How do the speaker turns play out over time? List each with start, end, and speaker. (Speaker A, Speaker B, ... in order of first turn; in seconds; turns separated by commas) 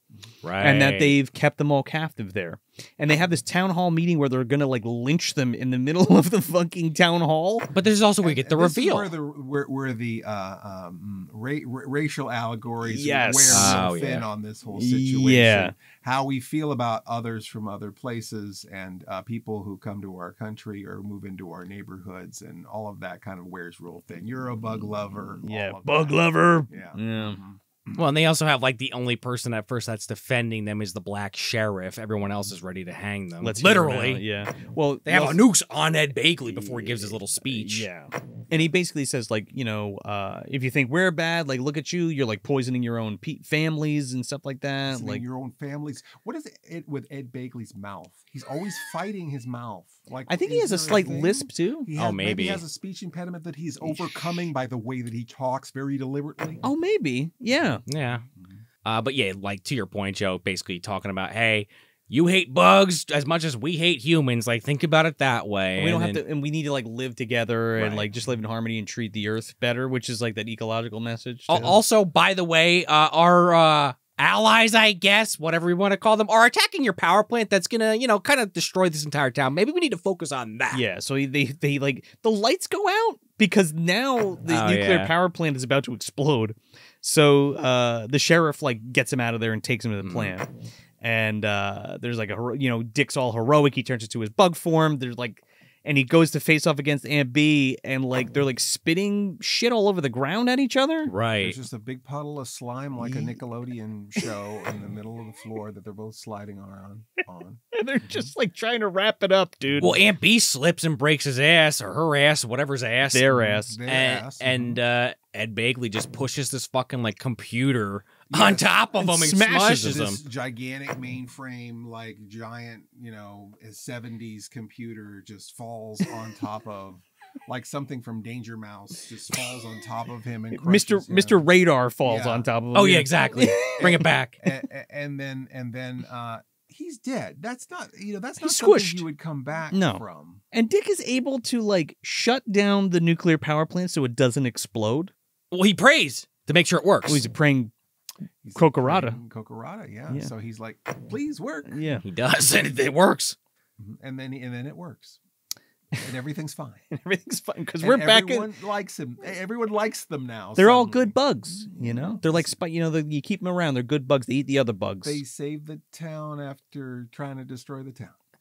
Speaker A: 0.4-1.1, Speaker B: 0.6-7.7, Speaker A: 7.8-9.1, Speaker C: 8.2-28.1, Speaker B: 12.8-13.8, Speaker A: 13.5-14.3, Speaker B: 14.7-15.8, Speaker B: 25.4-27.4, Speaker A: 27.9-34.2, Speaker B: 33.4-35.4, Speaker A: 35.1-37.9, Speaker B: 36.6-45.2, Speaker C: 44.9-56.6, Speaker B: 50.3-51.9, Speaker A: 52.0-52.6, Speaker B: 53.8-54.4, Speaker B: 56.6-57.8, Speaker A: 57.9-58.2, Speaker C: 58.4-58.6, Speaker A: 58.9-66.2, Speaker B: 65.8-71.8, Speaker A: 67.8-68.1, Speaker A: 71.5-80.8, Speaker B: 80.7-90.5, Speaker A: 84.5-85.1, Speaker A: 90.0-90.3, Speaker B: 91.0-101.1, Speaker A: 101.1-101.6, Speaker C: 101.4-108.3, Speaker B: 103.0-103.4, Speaker B: 107.7-110.0, Speaker A: 109.8-113.2, Speaker B: 113.1-113.8, Speaker C: 113.4-114.8, Speaker A: 113.9-120.2, Speaker C: 118.3-118.7, Speaker B: 119.0-119.9, Speaker C: 119.3-131.5, Speaker B: 130.6-134.0, Speaker C: 132.0-132.5, Speaker A: 132.7-134.4, Speaker C: 133.8-140.4, Speaker B: 138.4-139.1, Speaker B: 139.7-145.1, Speaker A: 145.5-147.3, Speaker B: 147.1-147.7, Speaker C: 148.4-151.8, Speaker B: 148.6-149.2, Speaker B: 151.7-152.0, Speaker A: 152.0-153.4, Speaker C: 153.8-155.2, Speaker C: 155.9-156.9, Speaker B: 156.9-158.5, Speaker C: 157.8-162.5, Speaker B: 160.6-165.2, Speaker C: 165.0-168.2